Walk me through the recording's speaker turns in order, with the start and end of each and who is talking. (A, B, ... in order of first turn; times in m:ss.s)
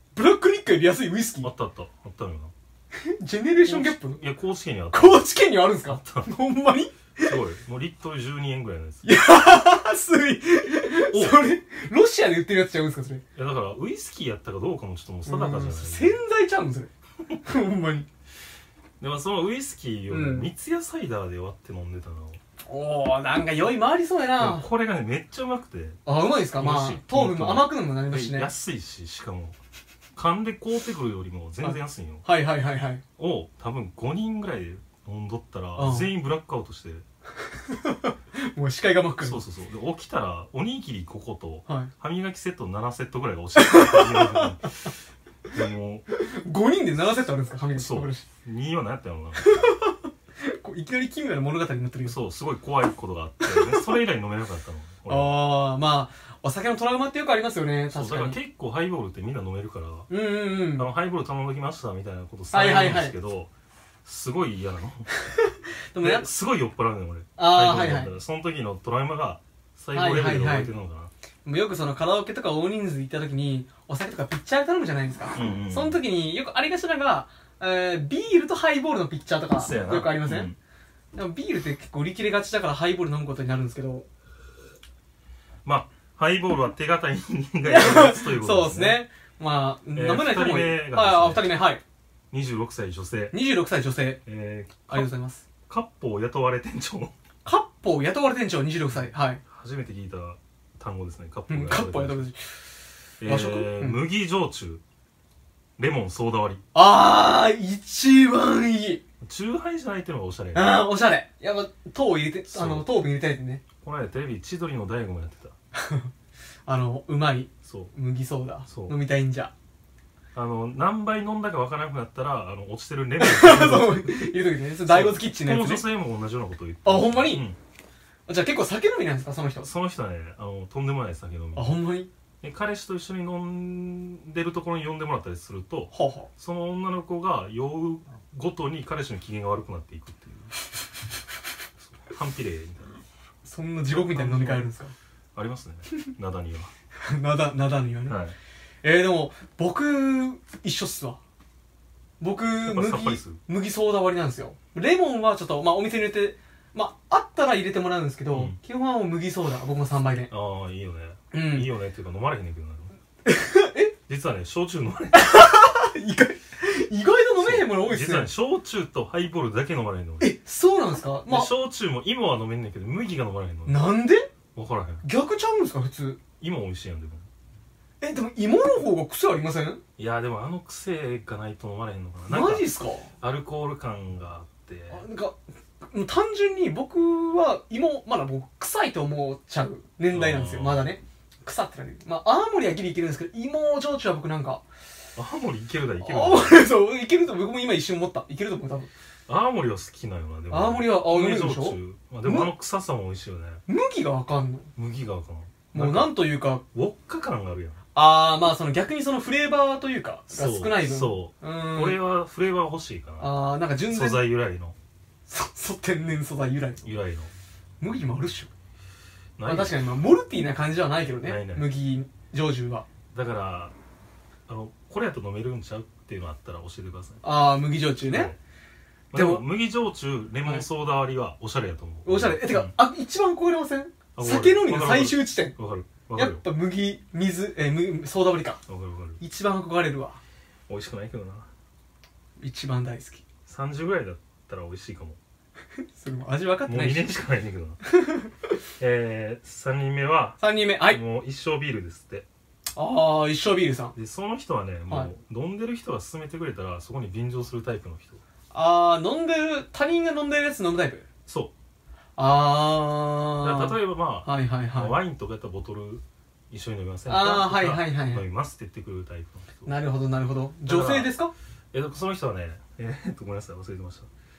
0:00.1-0:01.5 A
0:01.4-0:02.5 B
0:03.0-0:04.2 A
0:03.6-0:05.3 B
0:04.9-0:07.4 A
0:05.9-0:06.3 B
0:07.2-0:09.2 B
0:09.0-0:13.2 A
0:11.1-0:11.4 B
0:13.4-0:16.2 B
0:15.2-0:16.9 A
0:17.4-0:18.1 A
0:19.0-0:22.4 B
0:20.1-0:20.5 A
0:22.6-0:24.7 A
0:24.4-0:26.0 B
0:26.0-0:28.5 A
0:26.6-0:29.6 B
0:30.2-0:32.2 B
0:31.6-0:33.0 A
0:33.2-0:37.0 B
0:35.8-0:36.1 A
0:37.7-0:39.4 A
0:39.2-0:44.9 B
0:43.6-0:44.6 A
0:45.5-0:46.0 B
0:46.1-0:48.2 A
0:47.8-0:49.7 B
0:49.4-0:52.2 A
0:52.0-0:55.4 B
0:53.4-0:53.9 A
0:55.1-0:58.4 A
0:57.9-1:00.1 B
1:00.1-1:00.8 A
1:00.8-1:03.5 B
1:02.5-1:03.2 A
1:04.0-1:05.1 B
1:05.2-1:06.3 A
1:06.0-1:11.1 B
1:07.4-1:08.1 A
1:09.9-1:10.7 A
1:11.4-1:20.5 A
1:15.3-1:16.0 B
1:19.6-1:20.6 B
1:21.1-1:24.1 A
1:25.6-1:29.0 B
1:27.6-1:31.8 A
1:30.0-1:31.6 B
1:32.3-1:33.3 B
1:33.3-1:34.2 A
1:34.2-1:35.1 B
1:34.9-1:35.4 A
1:35.7-1:37.1 B
1:37.4-1:39.4 A
1:38.9-1:42.3 B
1:41.5-1:42.5 A
1:43.2-1:44.8 B
1:43.2-1:44.0 A
1:45.8-1:46.6 B
1:46.7-1:49.0 A
1:49.2-1:50.8 B
1:50.5-1:53.6 A
1:52.5-1:52.8 B
1:53.8-1:55.5 B
1:55.8-1:56.1 A
1:56.7-1:59.5 A
1:57.6-1:57.9 B
1:58.7-1:59.0 B
2:00.3-2:07.6 B
2:03.2-2:05.8 A
2:06.8-2:07.4 A
2:08.3-2:09.7 A
2:09.6-2:11.8 B
2:11.5-2:12.1 A
2:12.4-2:20.5 B
2:15.9-2:16.3 A
2:21.8-2:23.0 B
2:23.4-2:24.9 A
2:23.9-2:24.7 B
2:25.3-2:26.7 B
2:27.0-2:28.2 A
2:28.1-2:28.4 B
2:28.8-2:31.2 A
2:32.2-2:40.3 A
2:32.6-2:33.4 B
2:38.3-2:38.6 B
2:40.3-2:42.9 B
2:41.3-2:41.7 A
2:43.2-2:43.9 A
2:44.1-2:45.3 B
2:45.1-2:48.3 A
2:47.4-2:50.3 B
2:50.2-2:51.5 A
2:51.3-2:53.8 B
2:53.7-2:54.3 A
2:54.5-2:55.0 B
2:55.0-2:56.2 A
2:56.4-2:57.3 B
2:58.0-2:59.8 A
3:00.0-3:02.7 B
3:02.3-3:03.1 A
3:03.2-3:05.0 B
3:04.9-3:05.4 A
3:05.9-3:14.6 A
3:10.1-3:10.8 B
3:15.2-3:16.7 B
3:16.0-3:18.9 A
3:19.3-3:23.6 B
3:20.5-3:22.5 A
3:23.7-3:24.7 A
3:24.8-3:26.2 B
3:25.7-3:26.6 A
3:26.7-3:27.8 B
3:28.0-3:32.0 A
3:30.3-3:33.3 B
3:33.2-3:34.2 A
3:33.9-3:34.8 B
3:35.3-3:36.8 A
3:36.8-3:37.3 B
3:37.8-3:38.5 A
3:39.4-3:40.0 B
3:39.4-3:42.8 A
3:41.2-3:41.7 B
3:43.1-3:43.8 B
3:44.5-3:47.2 B
3:47.2-3:48.3 A
3:48.1-3:48.4 B
3:49.1-3:52.7 B
3:49.1-3:49.4 A
3:52.0-3:55.6 A
3:54.2-3:56.4 B
3:56.2-3:58.6 A
3:58.7-3:59.2 B
3:59.2-4:00.2 A
4:00.7-4:01.5 B
4:02.4-4:03.2 A
4:03.5-4:05.2 B
4:06.0-4:07.1 A
4:06.7-4:07.8 B
4:07.9-4:08.3 A
4:08.8-4:12.3 B
4:10.4-4:11.0 A
4:12.8-4:14.0 A
4:14.0-4:18.2 B
4:18.5-4:21.1 A
4:21.3-4:21.5 B
4:22.2-4:25.0 A
4:23.4-4:29.7 B
4:27.1-4:28.2 A
4:29.7-4:31.3 A
4:30.7-4:31.1 B
4:31.7-4:34.1 B